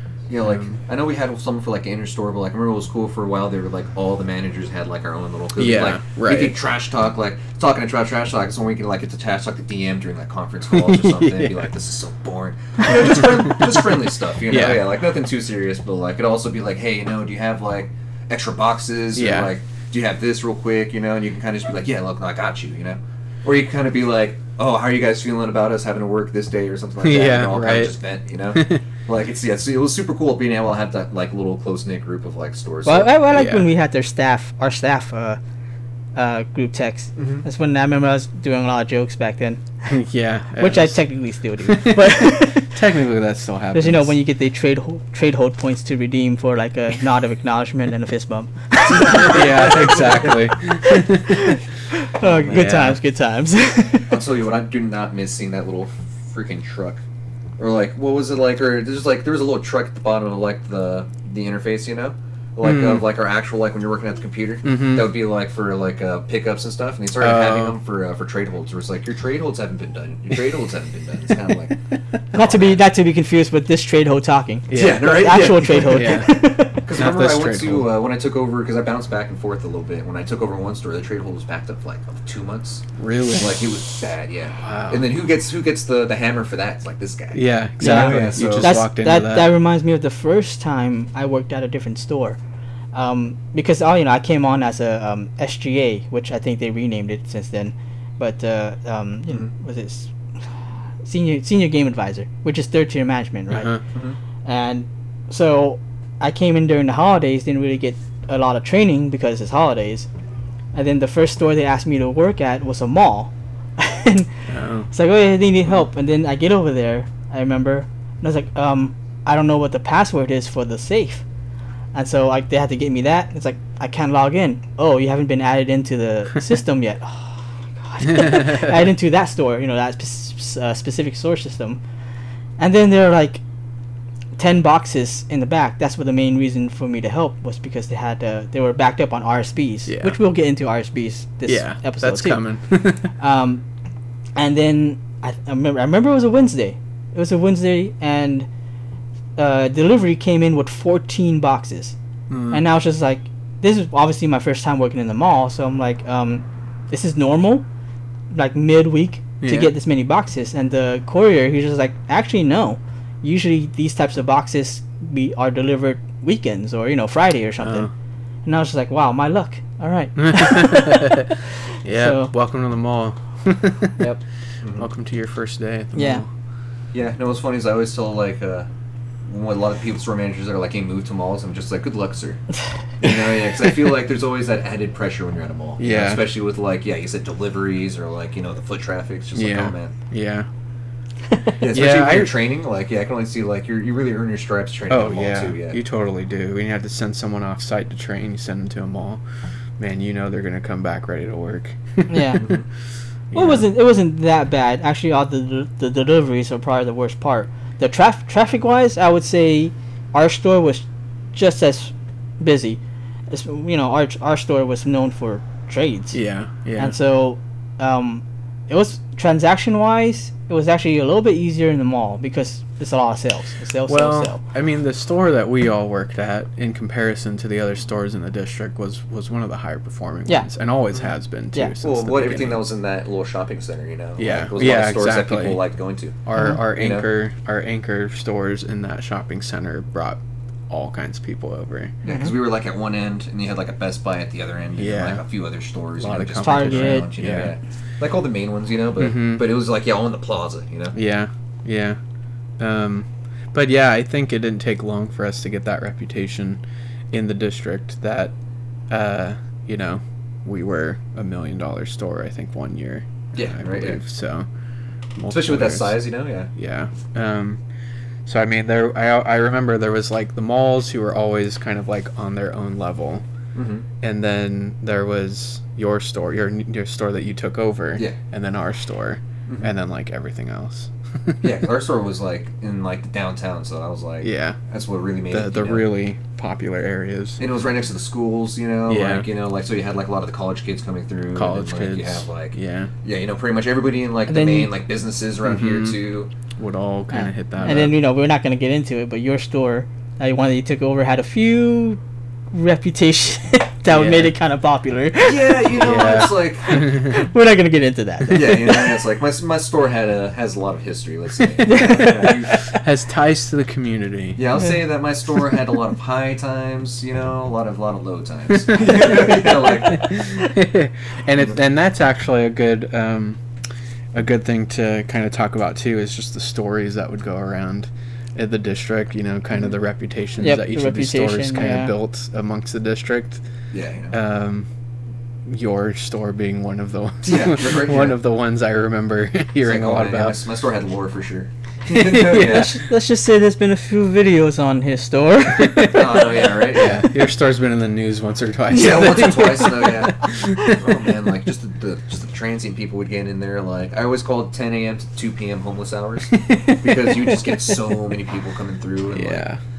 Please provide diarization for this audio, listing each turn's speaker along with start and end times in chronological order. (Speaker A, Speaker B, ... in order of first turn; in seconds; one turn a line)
Speaker A: 0.3-33.1
Speaker B: 0.4-0.7
Speaker B: 5.6-6.6
Speaker B: 10.7-11.7
Speaker B: 12.9-15.0
Speaker B: 19.1-19.5
Speaker B: 27.0-27.9
Speaker B: 28.5-28.8
Speaker C: 32.8-35.4
Speaker B: 33.3-33.7
Speaker C: 36.1-39.6
Speaker A: 37.1-37.4
Speaker B: 39.9-41.0
Speaker C: 40.6-42.7
Speaker B: 41.6-44.1
Speaker C: 43.7-49.7
Speaker A: 48.9-50.5
Speaker B: 49.0-51.6
Speaker C: 50.8-54.1
Speaker B: 52.4-53.0
Speaker A: 54.1-57.0
Speaker A: 57.6-71.8
Speaker B: 62.6-63.1
Speaker B: 64.6-65.1
Speaker B: 67.2-67.8
Speaker A: 72.3-72.8
Speaker C: 72.3-76.8
Speaker B: 74.7-77.9
Speaker A: 74.7-88.8
Speaker B: 83.0-83.6
Speaker B: 84.6-85.1
Speaker B: 87.3-89.5
Speaker C: 87.8-92.4
Speaker C: 92.9-100.1
Speaker C: 101.0-103.8
Speaker B: 103.5-103.8
Speaker C: 104.4-110.1
Speaker C: 110.7-114.3
Speaker B: 114.5-114.9
Speaker C: 114.9-121.2
Speaker C: 121.9-131.8
Speaker B: 128.0-128.7
Speaker C: 132.6-133.4
Speaker C: 134.4-142.4
Speaker B: 139.9-140.2
Speaker B: 141.5-143.1
Speaker C: 143.2-143.6
Speaker C: 144.3-148.5
Speaker C: 149.4-151.9
Speaker B: 152.3-152.6
Speaker C: 152.5-157.7
Speaker C: 158.3-167.9
Speaker B: 159.4-159.7
Speaker B: 167.6-167.9
Speaker C: 168.4-171.3
Speaker B: 170.2-174.1
Speaker C: 171.9-172.3
Speaker A: 174.0-174.9
Speaker B: 174.8-176.3
Speaker C: 175.9-176.2
Speaker A: 176.9-178.7
Speaker A: 179.3-182.4
Speaker A: 183.0-189.9
Speaker B: 185.8-186.2
Speaker B: 189.3-190.5
Speaker A: 191.6-195.8
Speaker B: 191.6-192.3
Speaker B: 194.9-199.2
Speaker B: 199.8-202.5
Speaker C: 202.1-202.4
Speaker A: 202.4-202.7
Speaker B: 203.3-203.7
Speaker C: 203.3-212.8
Speaker C: 213.3-216.2
Speaker B: 216.1-216.9
Speaker C: 216.8-224.4
Speaker B: 223.9-232.6
Speaker A: 231.8-237.1
Speaker B: 234.2-235.6
Speaker B: 236.2-242.0
Speaker C: 236.3-236.6
Speaker C: 242.0-242.3
Speaker A: 242.0-251.0
Speaker B: 244.8-245.2
Speaker B: 246.0-247.5
Speaker C: 246.4-247.1
Speaker B: 249.0-249.5
Speaker B: 250.9-252.0
Speaker B: 252.6-256.6
Speaker B: 257.1-258.3
Speaker B: 258.9-264.5
Speaker A: 263.3-264.0
Speaker B: 265.1-266.0
Speaker A: 265.3-266.5
Speaker B: 266.5-267.6
Speaker B: 268.2-273.2
Speaker A: 273.5-273.9
Speaker B: 274.0-281.4
Speaker A: 281.4-285.9
Speaker B: 284.2-284.6
Speaker B: 285.3-287.4
Speaker A: 287.4-296.3
Speaker B: 288.9-289.3
Speaker B: 291.3-292.9
Speaker C: 294.3-294.7
Speaker B: 295.4-296.0
Speaker B: 296.6-297.9
Speaker C: 297.1-302.0
Speaker C: 302.5-309.0
Speaker B: 303.9-304.3
Speaker A: 305.2-306.9
Speaker B: 305.7-307.2
Speaker A: 308.3-312.6
Speaker B: 308.3-308.6
Speaker B: 311.5-314.6
Speaker C: 311.6-312.8
Speaker A: 314.4-320.2
Speaker B: 318.6-323.4
Speaker B: 324.1-333.4
Speaker C: 330.4-331.9
Speaker A: 333.7-334.2
Speaker B: 334.1-334.7
Speaker B: 335.4-340.4
Speaker A: 337.2-338.2
Speaker A: 339.6-342.8
Speaker B: 341.9-342.7
Speaker C: 342.3-346.6
Speaker B: 345.6-351.1
Speaker A: 345.6-347.1
Speaker A: 348.7-359.4
Speaker B: 356.3-357.8
Speaker B: 359.1-359.6